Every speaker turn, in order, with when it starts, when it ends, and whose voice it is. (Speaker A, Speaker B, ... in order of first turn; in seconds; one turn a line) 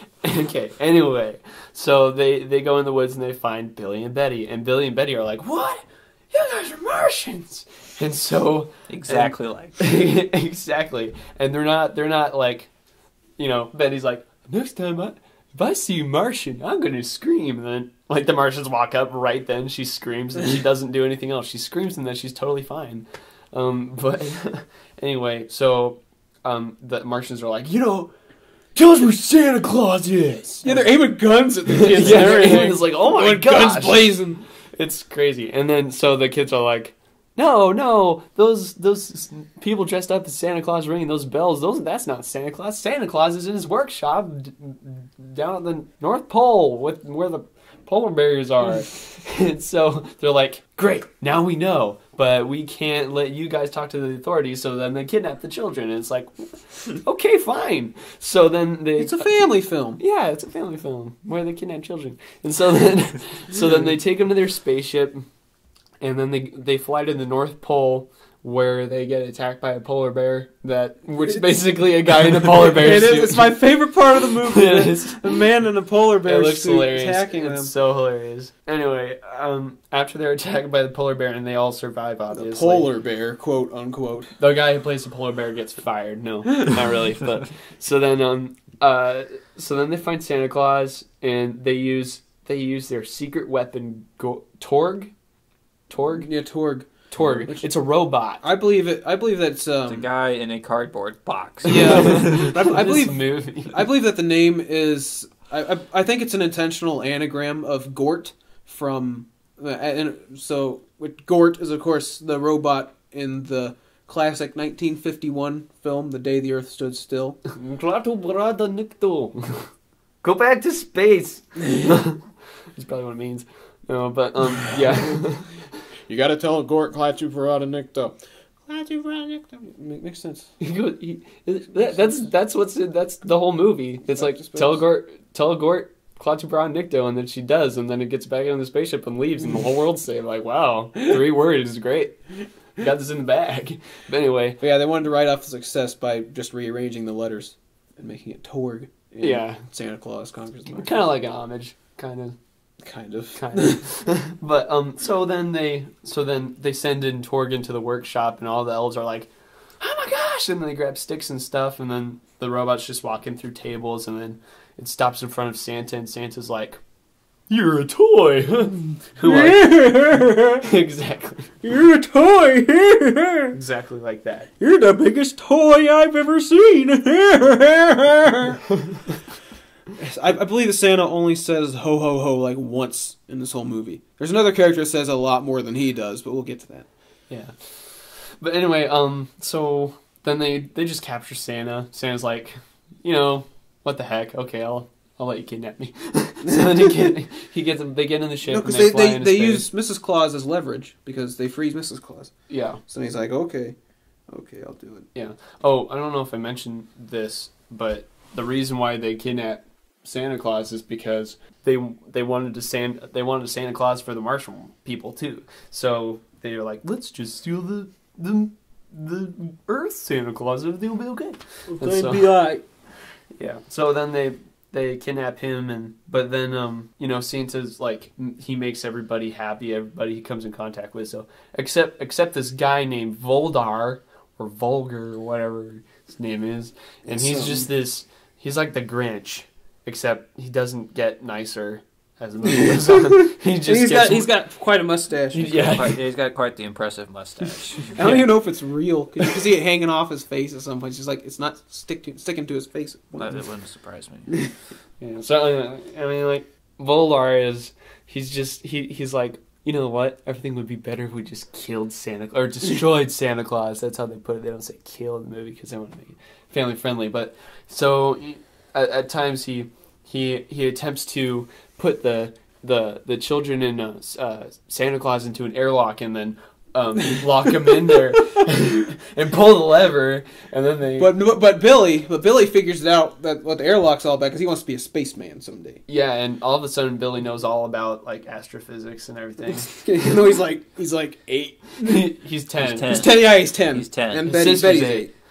Speaker A: 0.2-12.7
Speaker B: 8.9-9.8
Speaker A: 13.4-28.1
Speaker A: 28.8-31.0
Speaker C: 30.6-34.4
Speaker A: 31.7-34.2
Speaker B: 32.0-32.5
Speaker A: 34.7-59.5
Speaker C: 59.0-60.0
Speaker A: 60.0-65.2
Speaker A: 66.0-73.6
Speaker C: 72.4-77.7
Speaker A: 74.4-75.4
Speaker A: 76.2-82.9
Speaker C: 82.3-84.3
Speaker A: 84.4-95.1
Speaker A: 95.9-96.3
Speaker C: 96.1-97.7
Speaker A: 97.1-98.4
Speaker C: 98.4-100.1
Speaker B: 99.9-102.6
Speaker C: 101.7-117.4
Speaker A: 101.7-103.8
Speaker A: 117.5-119.7
Speaker A: 120.2-125.5
Speaker C: 126.1-130.5
Speaker A: 130.6-142.2
Speaker C: 134.2-134.8
Speaker A: 142.8-144.6
Speaker C: 144.6-151.1
Speaker A: 149.2-149.6
Speaker A: 150.7-152.4
Speaker C: 152.8-153.8
Speaker A: 153.3-166.8
Speaker A: 167.5-169.8
Speaker C: 169.2-170.7
Speaker A: 170.6-171.5
Speaker C: 171.6-173.6
Speaker A: 173.5-174.5
Speaker C: 174.6-178.7
Speaker C: 180.0-186.9
Speaker A: 188.4-199.7
Speaker C: 198.5-202.3
Speaker A: 202.5-202.8
Speaker C: 202.9-203.8
Speaker C: 204.3-205.1
Speaker A: 205.2-222.3
Speaker C: 221.7-222.6
Speaker A: 223.3-244.3
Speaker C: 237.1-237.7
Speaker C: 242.7-245.8
Speaker A: 245.3-246.0
Speaker B: 245.6-248.0
Speaker C: 247.9-253.4
Speaker A: 248.0-248.3
Speaker B: 253.2-254.4
Speaker A: 255.0-281.1
Speaker C: 281.0-285.8
Speaker A: 285.9-289.8
Speaker C: 289.5-292.1
Speaker A: 291.8-293.0
Speaker B: 292.6-294.3
Speaker C: 292.8-295.1
Speaker A: 294.2-295.1